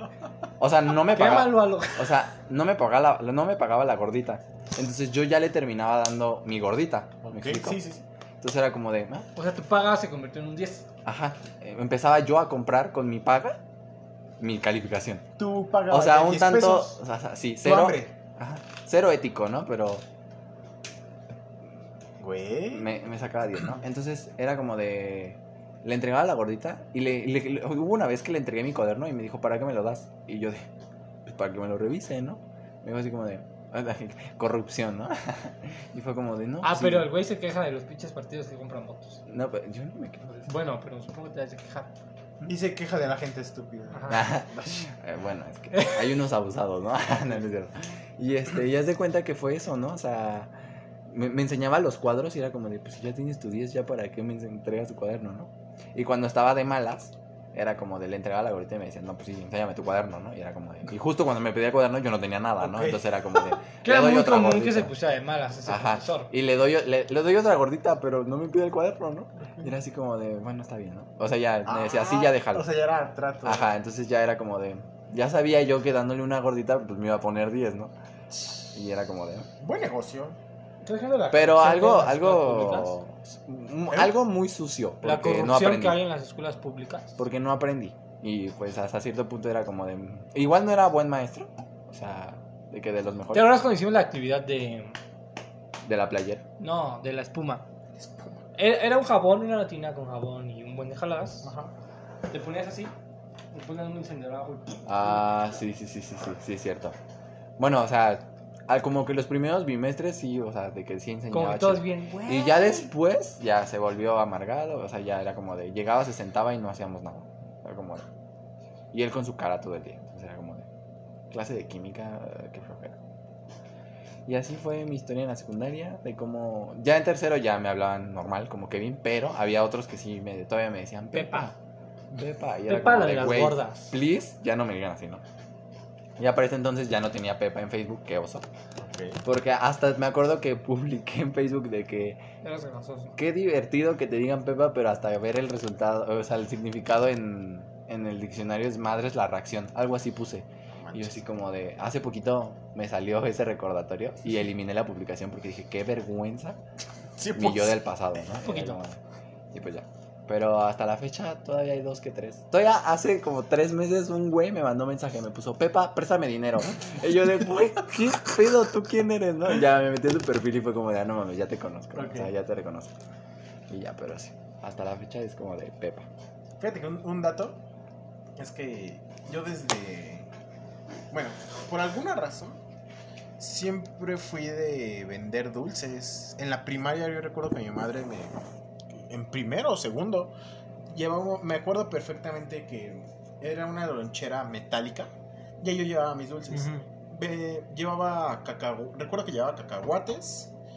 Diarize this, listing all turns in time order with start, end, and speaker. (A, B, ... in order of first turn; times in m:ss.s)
0:00.6-0:07.8 A
0:01.1-0:02.1 B
0:07.2-0:08.0 C
0:08.4-0:09.3 A
0:09.4-0:10.8 B
0:11.0-0:13.6 A
0:14.4-0:15.2 A
0:15.4-0:17.0 C
0:15.9-0:20.0 A
0:17.6-0:18.1 C
0:22.2-0:22.9 C
0:22.7-0:30.7 A
0:31.2-0:37.1 A
0:36.6-0:39.2 B
0:39.2-0:40.4 A
0:40.4-0:41.9 B
0:42.4-0:44.8 C
0:43.9-0:44.3 B
0:44.1-0:50.5 A
0:45.7-0:46.1 B
0:51.1-1:04.9 A
1:02.6-1:03.1 C
1:03.8-1:06.3 B
1:05.6-1:12.6 A
1:11.6-1:13.7 C
1:13.4-1:17.9 A
1:18.7-1:19.5 A
1:19.6-1:20.4 C
1:20.8-1:22.9 B
1:21.3-1:26.0 A
1:25.0-1:27.2 B
1:27.2-1:33.5 A
1:33.3-1:35.0 B
1:35.8-1:36.4 A
1:36.6-1:37.6 B
1:38.0-1:38.5 C
1:38.6-1:41.5 B
1:41.4-1:41.7 C
1:42.3-1:42.9 B
1:43.5-1:45.2 B
1:44.8-1:47.0 A
1:47.6-1:58.0 A
1:51.3-1:52.9 B
1:58.9-2:00.7 A
2:01.3-2:03.0 A
2:04.2-2:11.5 A
2:11.1-2:11.5 B
2:12.1-2:15.2 A
2:12.7-2:13.9 B
2:16.2-2:18.4 A
2:18.8-2:19.2 C
2:19.2-2:22.2 A
2:22.4-2:23.2 B
2:23.2-2:36.6 A
2:30.8-2:31.2 C
2:37.2-2:37.8 C
2:37.3-2:39.0 A
2:38.3-2:38.8 B
2:39.5-2:52.9 A
2:51.9-2:52.3 C
2:53.7-2:56.1 A
2:56.6-2:57.6 C
2:58.4-3:00.3 C
3:01.1-3:02.6 C
3:03.4-3:10.3 C
3:10.9-3:20.5 C
3:16.5-3:16.8 B